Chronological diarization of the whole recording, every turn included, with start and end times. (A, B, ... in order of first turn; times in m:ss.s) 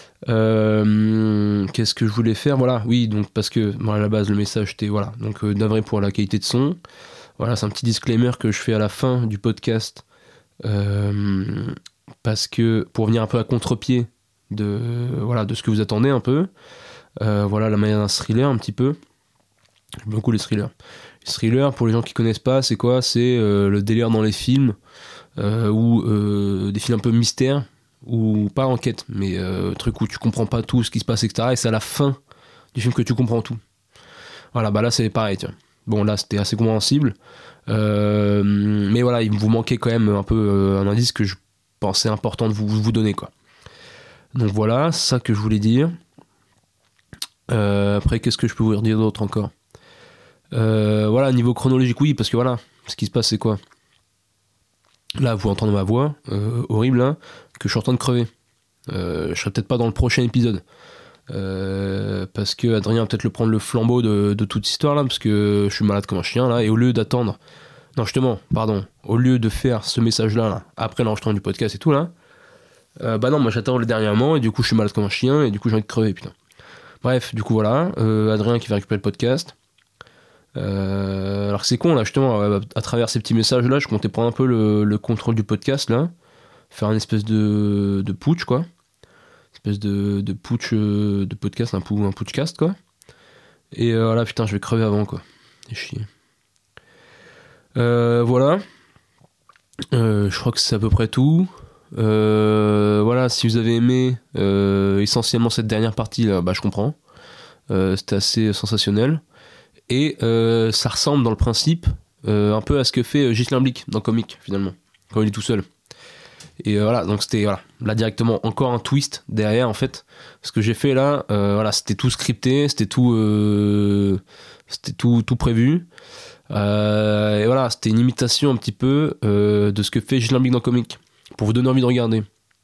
0:00.3-0:06.8 A
0:07.4-0:10.0 A
0:10.6-0:16.5 A
0:17.2-0:19.0 A
0:20.0-0:24.8 A
0:25.4-0:32.2 A
0:32.7-0:33.6 A
0:34.5-0:37.2 A
0:37.7-0:43.3 A
0:44.3-0:46.0 A
0:47.5-0:49.5 A
0:50.5-0:53.6 A
0:55.2-0:58.3 A
0:58.9-1:00.6 A
1:01.3-1:07.4 A
1:08.0-1:12.1 A
1:13.0-1:16.3 A
1:17.0-1:19.5 A
1:20.6-1:26.1 A
1:26.7-1:28.6 A
1:29.5-1:32.8 A
1:33.7-1:36.1 A
1:37.7-1:38.6 A
1:39.9-1:47.0 A
1:47.7-1:49.2 A
1:49.9-1:55.6 A
1:56.6-2:05.9 A
2:06.5-2:12.3 A